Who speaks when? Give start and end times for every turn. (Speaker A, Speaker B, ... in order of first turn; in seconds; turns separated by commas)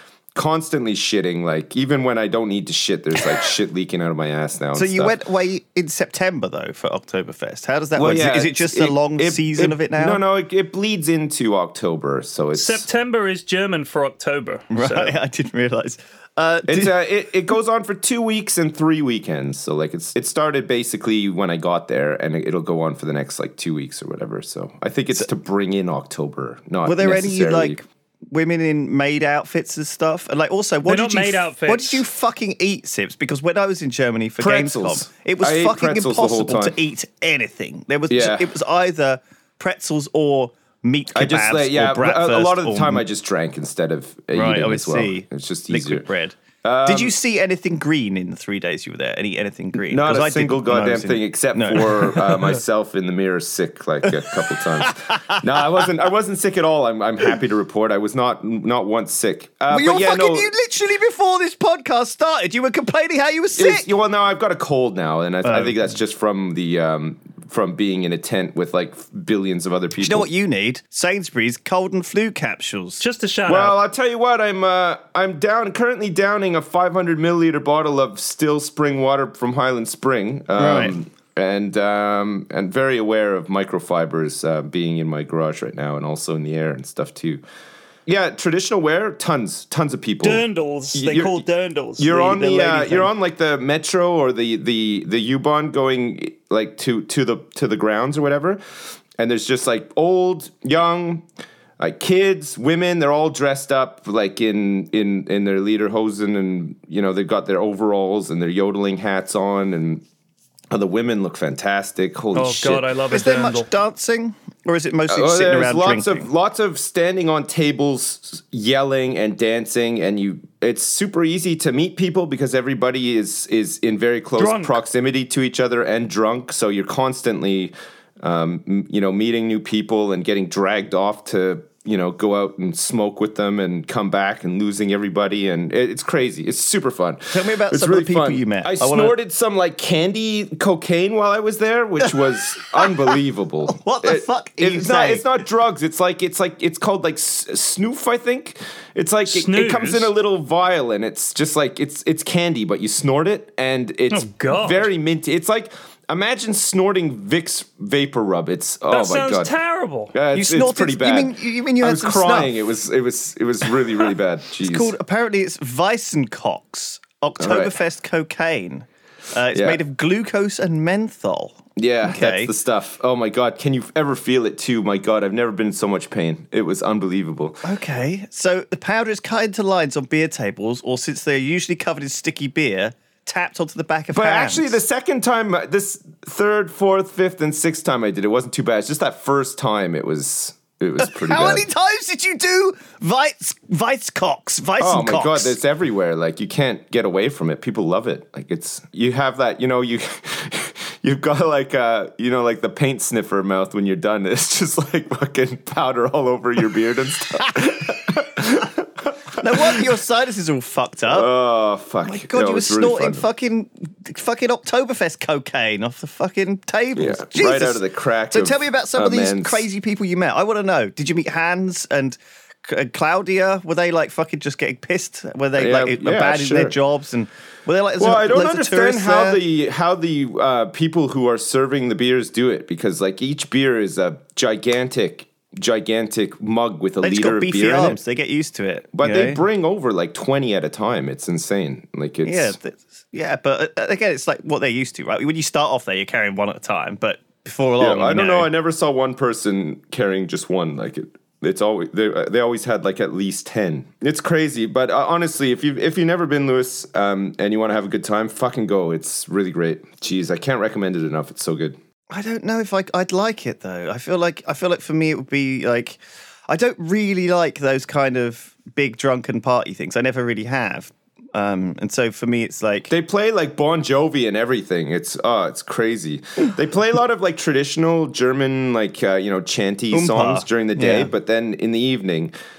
Speaker A: 0.3-5.2, Speaker B: 4.8-10.2, Speaker A: 8.0-12.9, Speaker C: 12.6-14.9, Speaker B: 14.7-16.9, Speaker A: 16.7-27.8, Speaker B: 26.8-27.8, Speaker B: 28.3-43.0, Speaker C: 30.9-32.0, Speaker A: 34.4-36.8, Speaker A: 38.1-38.5, Speaker A: 41.1-46.1, Speaker B: 44.3-52.6, Speaker A: 46.6-47.2, Speaker A: 49.8-60.5, Speaker B: 54.1-55.6, Speaker B: 59.7-63.9, Speaker A: 63.6-70.3, Speaker B: 65.5-65.8, Speaker B: 70.0-73.0, Speaker C: 73.0-73.8, Speaker A: 73.5-87.4, Speaker B: 80.6-81.0, Speaker A: 88.1-91.4, Speaker C: 90.2-93.0, Speaker A: 92.0-101.2, Speaker A: 101.8-110.0, Speaker A: 110.7-112.9, Speaker C: 112.3-113.7, Speaker B: 113.1-116.3, Speaker A: 115.1-159.5, Speaker C: 124.4-124.8, Speaker B: 137.3-139.2, Speaker B: 143.7-145.3, Speaker C: 149.3-150.1, Speaker C: 154.1-154.9, Speaker C: 158.9-160.1, Speaker A: 160.1-164.9, Speaker B: 160.3-162.5, Speaker B: 164.6-172.5, Speaker A: 167.4-167.7, Speaker A: 169.5-169.8, Speaker A: 171.8-177.6, Speaker B: 177.6-184.8, Speaker A: 184.1-191.7, Speaker B: 191.0-195.6, Speaker A: 194.8-208.8, Speaker B: 207.4-207.7, Speaker A: 209.4-209.8, Speaker B: 209.4-211.3, Speaker A: 211.1-213.2, Speaker B: 212.1-229.4, Speaker A: 217.0-219.6, Speaker A: 225.6-226.8, Speaker A: 228.0-238.0, Speaker B: 237.0-239.4, Speaker A: 238.9-242.6, Speaker B: 242.2-248.5, Speaker A: 247.8-261.8, Speaker B: 262.1-272.9, Speaker A: 272.9-282.3, Speaker B: 279.9-281.1